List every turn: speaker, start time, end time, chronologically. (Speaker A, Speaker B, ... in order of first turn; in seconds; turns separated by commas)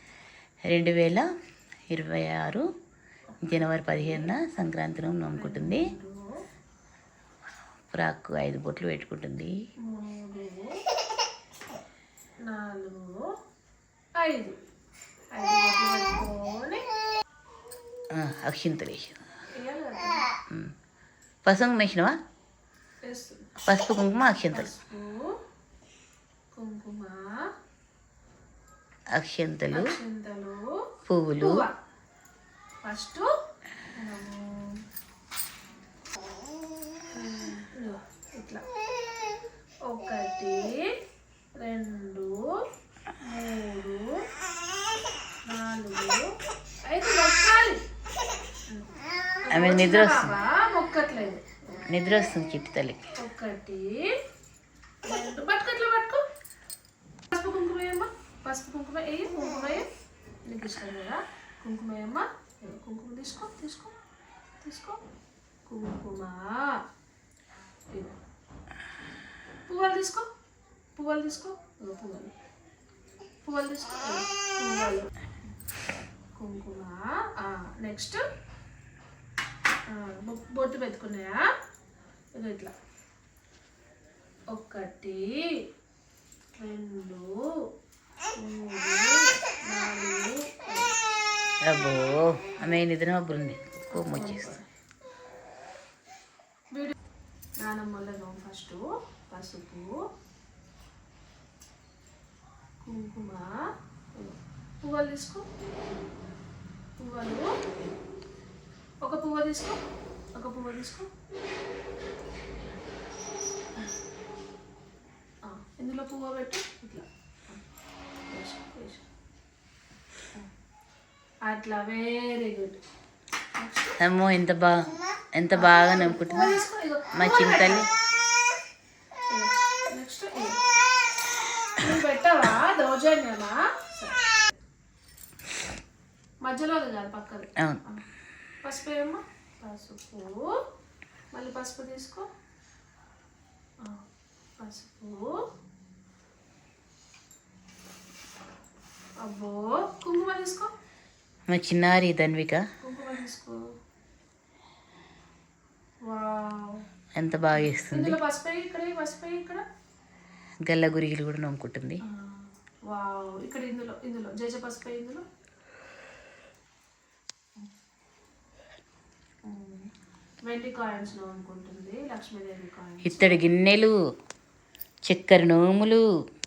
Speaker A: 0.7-1.3, Speaker A: 1.9-2.6, Speaker B: 3.3-4.3, Speaker A: 3.5-5.9, Speaker B: 5.4-6.3, Speaker A: 7.9-9.5, Speaker B: 9.8-10.7, Speaker B: 12.4-13.2, Speaker B: 14.2-14.6, Speaker B: 15.3-16.8, Speaker A: 18.1-19.2, Speaker B: 19.6-20.3, Speaker A: 21.4-22.1, Speaker B: 23.1-23.5, Speaker A: 23.7-24.7, Speaker B: 24.5-25.3, Speaker B: 26.6-27.2, Speaker A: 29.2-29.9, Speaker B: 29.7-30.6, Speaker A: 31.1-31.7, Speaker B: 31.4-31.7, Speaker B: 32.8-33.3, Speaker B: 34.0-34.7, Speaker B: 37.2-38.6, Speaker B: 39.9-40.9, Speaker B: 41.6-42.3, Speaker B: 43.2-44.0, Speaker B: 45.5-46.2, Speaker B: 46.9-47.8, Speaker B: 49.5-51.9, Speaker A: 49.5-50.4, Speaker A: 51.9-53.1, Speaker B: 53.2-54.1, Speaker B: 55.1-56.2, Speaker B: 57.3-59.9, Speaker B: 60.5-63.9, Speaker B: 64.6-65.0, Speaker B: 65.7-66.5, Speaker B: 67.9-68.2, Speaker B: 69.7-70.2, Speaker B: 71.0-72.3, Speaker B: 73.4-75.1, Speaker B: 76.3-78.2, Speaker B: 79.9-81.5, Speaker B: 82.3-82.7, Speaker B: 84.5-85.3, Speaker B: 86.6-87.3, Speaker B: 88.4-89.1, Speaker B: 89.7-91.0, Speaker A: 91.7-94.5, Speaker B: 93.9-94.7, Speaker B: 97.6-99.9, Speaker B: 102.8-103.5, Speaker B: 104.2-105.4, Speaker B: 107.0-107.6, Speaker B: 109.0-109.8, Speaker B: 110.4-111.1, Speaker B: 115.5-117.6, Speaker B: 118.3-119.0, Speaker B: 121.5-122.8, Speaker B: 123.6-124.0, Speaker A: 124.0-124.8, Speaker A: 125.4-126.6, Speaker B: 125.5-127.9, Speaker A: 127.1-127.9, Speaker B: 129.3-130.6, Speaker B: 131.8-134.6, Speaker B: 136.4-138.0, Speaker B: 138.6-140.5, Speaker B: 141.3-142.3, Speaker B: 144.6-145.3, Speaker B: 149.2-150.7, Speaker A: 151.5-152.6, Speaker B: 152.8-153.6, Speaker B: 156.1-156.8, Speaker A: 157.2-158.2, Speaker B: 157.6-159.6, Speaker A: 160.7-162.0, Speaker B: 162.1-165.2, Speaker B: 169.5-169.9, Speaker B: 170.5-173.4, Speaker A: 173.1-173.9, Speaker A: 175.1-176.0